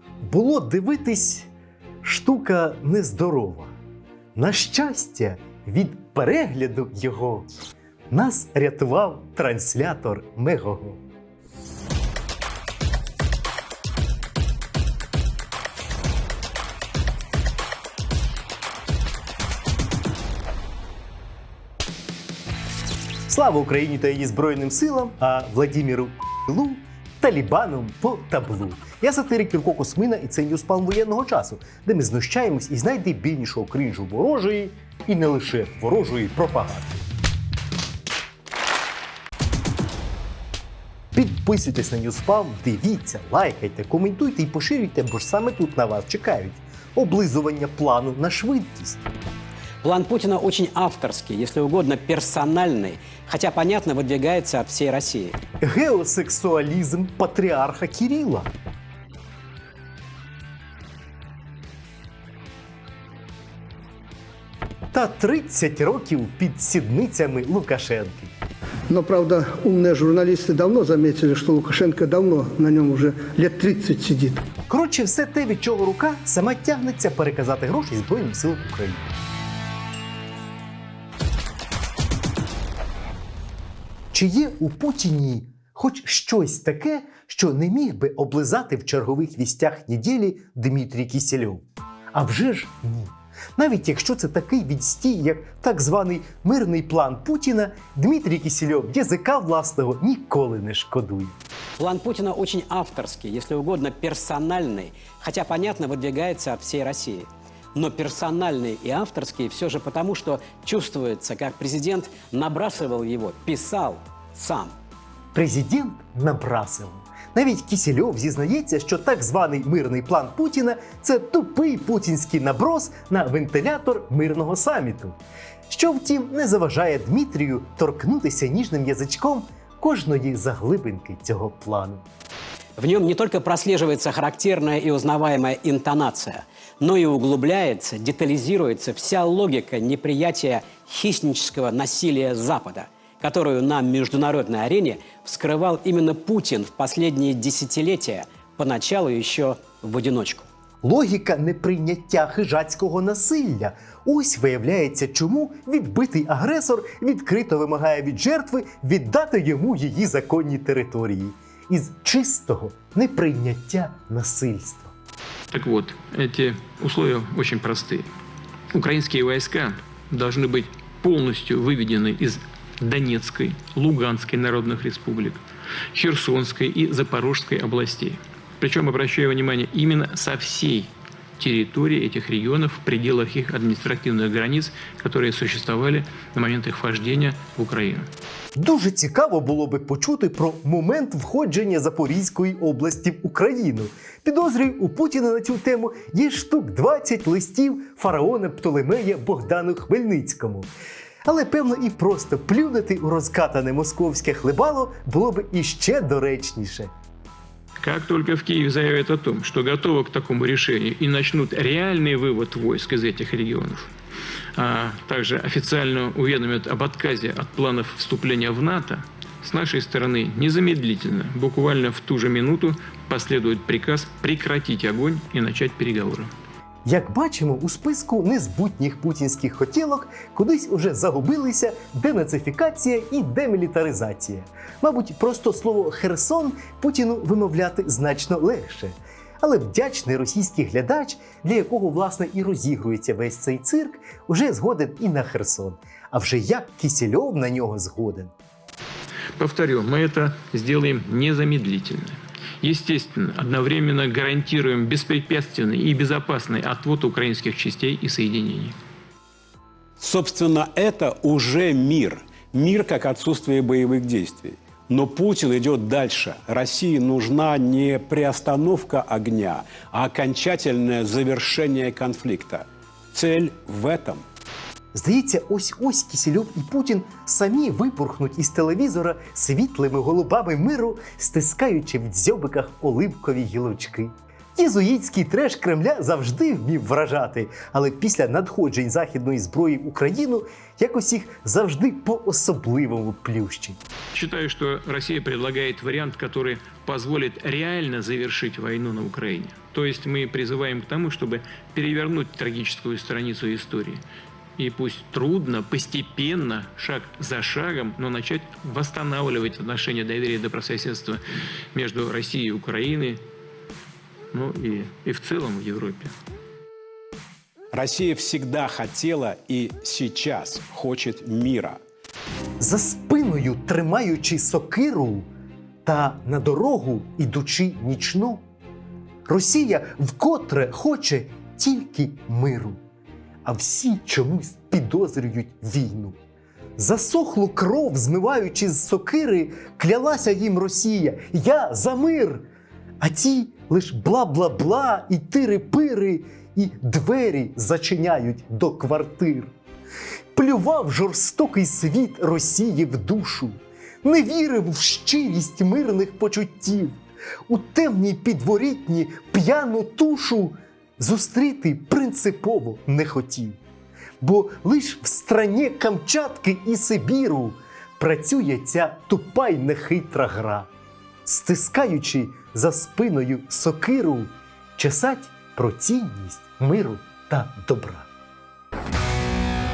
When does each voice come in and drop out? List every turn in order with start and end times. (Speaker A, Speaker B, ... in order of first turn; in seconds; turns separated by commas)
Speaker A: 0.2-1.5, Speaker A: 2.0-3.7, Speaker A: 4.3-7.5, Speaker A: 8.1-11.0, Speaker A: 23.3-37.0, Speaker A: 41.1-49.0, Speaker B: 49.8-55.4, Speaker A: 55.6-58.5, Speaker A: 64.9-68.3, Speaker C: 68.9-74.4, Speaker A: 74.7-79.0, Speaker A: 84.1-101.3, Speaker B: 101.8-114.7, Speaker A: 115.3-125.2, Speaker A: 125.7-132.1, Speaker B: 132.8-150.5, Speaker A: 150.8-164.9, Speaker D: 165.5-168.1, Speaker D: 168.7-175.4, Speaker D: 175.9-188.1, Speaker A: 188.6-200.7, Speaker A: 201.2-206.9, Speaker D: 207.8-213.9, Speaker D: 214.5-226.3, Speaker A: 226.8-248.3, Speaker D: 249.4-258.7, Speaker E: 260.0-274.2, Speaker A: 274.9-293.8, Speaker D: 294.1-304.0, Speaker D: 304.6-311.2, Speaker D: 311.7-313.2, Speaker D: 314.3-316.1, Speaker E: 317.7-321.8, Speaker A: 322.6-325.3, Speaker A: 325.8-328.4, Speaker A: 329.3-332.8, Speaker A: 333.4-336.2, Speaker A: 336.8-342.4, Speaker A: 343.0-349.5, Speaker A: 350.3-363.6, Speaker A: 364.2-370.7, Speaker A: 371.2-378.1